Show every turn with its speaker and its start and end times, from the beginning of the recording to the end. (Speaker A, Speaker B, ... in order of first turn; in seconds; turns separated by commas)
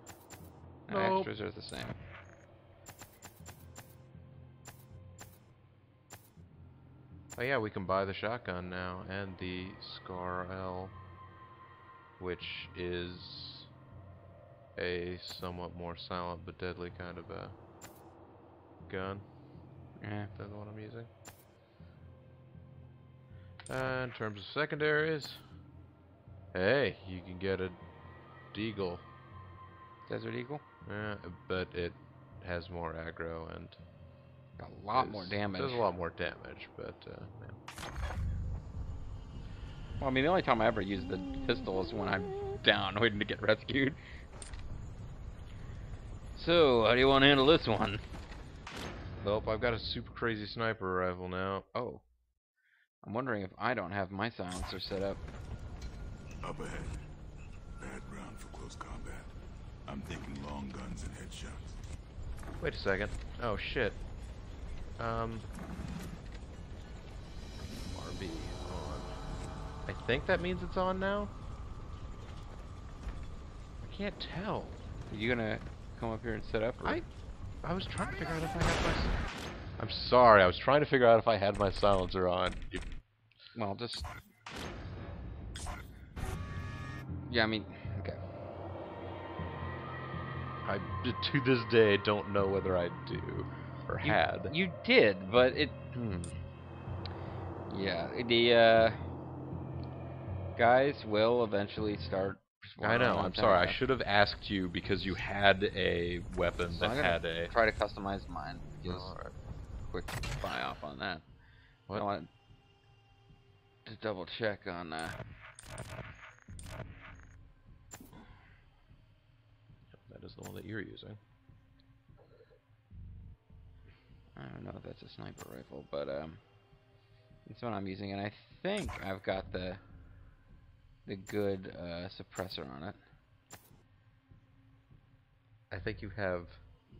Speaker A: 0.9-2.0, Speaker B: 0.9-1.3, Speaker B: 7.3-10.9, Speaker B: 12.2-13.7, Speaker B: 14.7-17.6, Speaker B: 18.8-19.4, Speaker A: 20.0-20.3, Speaker B: 20.3-21.1, Speaker B: 23.7-25.4, Speaker B: 26.5-27.8, Speaker B: 28.5-29.1, Speaker A: 30.1-30.6, Speaker B: 30.9-33.8, Speaker A: 34.6-35.9, Speaker B: 34.9-37.6, Speaker A: 40.0-44.0, Speaker A: 46.3-48.0, Speaker B: 49.2-51.7, Speaker A: 51.7-52.1, Speaker A: 53.0-55.2, Speaker C: 56.4-57.1, Speaker C: 57.8-59.3, Speaker C: 59.8-61.8, Speaker B: 62.6-64.1, Speaker B: 65.0-65.5, Speaker B: 67.9-69.1, Speaker B: 69.8-71.3, Speaker B: 73.8-74.8, Speaker A: 75.1-77.0, Speaker B: 76.8-82.8, Speaker A: 83.5-84.1, Speaker A: 87.2-88.2, Speaker B: 90.6-94.5, Speaker A: 94.0-96.4, Speaker A: 97.7-99.0, Speaker A: 100.5-103.8, Speaker B: 102.8-107.5, Speaker A: 106.7-109.2, Speaker B: 108.8-109.3, Speaker A: 109.8-111.3, Speaker A: 111.9-112.3, Speaker A: 113.8-115.2, Speaker B: 119.9-121.2, Speaker A: 124.3-126.4, Speaker A: 127.5-129.8, Speaker A: 131.0-133.0, Speaker B: 135.7-136.6